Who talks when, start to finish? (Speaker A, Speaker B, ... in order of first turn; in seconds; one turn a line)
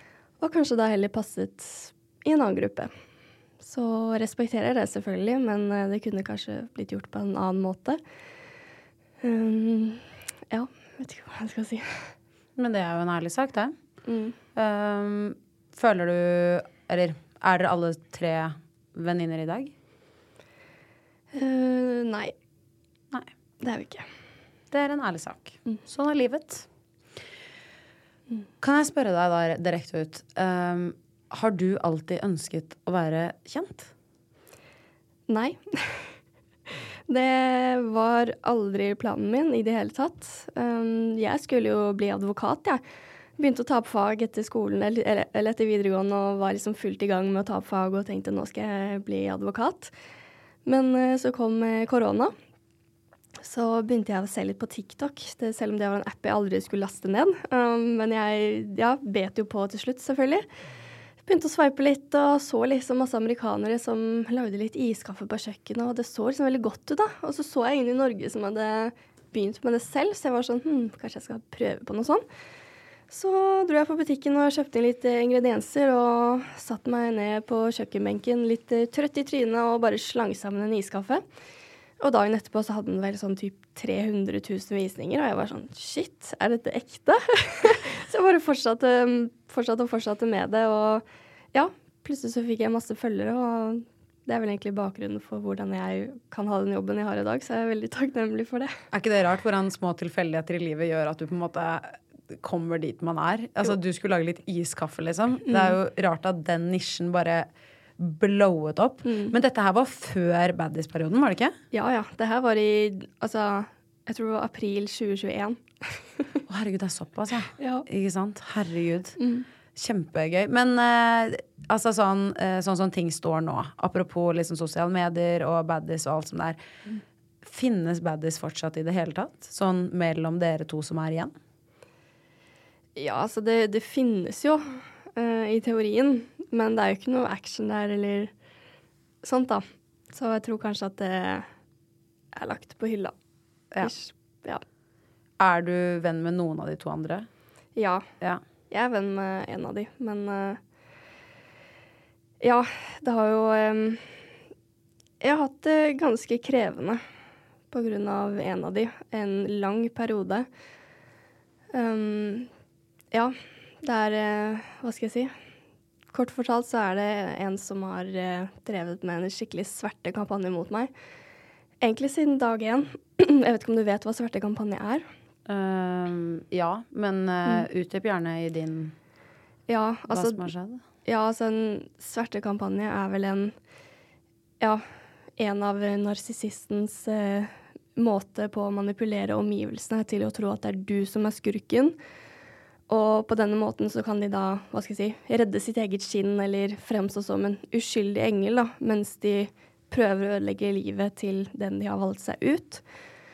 Speaker A: 0.4-2.9
Speaker A: 3.6-8.0
Speaker A: 9.2-12.1
Speaker B: 12.6-13.7
Speaker A: 14.1-14.4
Speaker B: 14.6-19.7
Speaker A: 21.3-22.3
Speaker A: 23.6-24.1
Speaker B: 24.7-26.7
Speaker B: 28.6-33.9
Speaker A: 35.3-36.1
Speaker A: 37.1-42.8
Speaker A: 43.4-49.9
Speaker A: 50.6-52.3
Speaker A: 53.4-60.5
Speaker A: 61.2-72.2
Speaker A: 73.1-81.2
Speaker A: 82.0-98.7
Speaker B: 98.9-107.5
Speaker A: 105.5-105.8
Speaker B: 108.0-111.5
Speaker A: 109.0-109.3
Speaker A: 111.7-116.2
Speaker B: 116.5-119.2
Speaker A: 117.6-117.9
Speaker A: 119.2-119.5
Speaker B: 119.8-126.6
Speaker B: 127.4-131.3
Speaker A: 133.0-138.3
Speaker A: 139.2-141.5
Speaker A: 142.3-143.1
Speaker A: 143.8-144.6
Speaker B: 145.4-147.3
Speaker A: 147.8-148.1
Speaker A: 148.7-150.6
Speaker A: 152.4-154.1
Speaker A: 155.2-157.0
Speaker A: 157.7-160.5
Speaker A: 161.7-162.5
Speaker A: 163.1-165.3
Speaker A: 166.1-170.9
Speaker A: 171.8-175.1
Speaker B: 175.5-178.9
Speaker A: 179.7-180.5
Speaker B: 180.1-180.8
Speaker A: 181.1-183.5
Speaker A: 184.6-184.8
Speaker A: 185.4-192.0
Speaker A: 192.9-202.8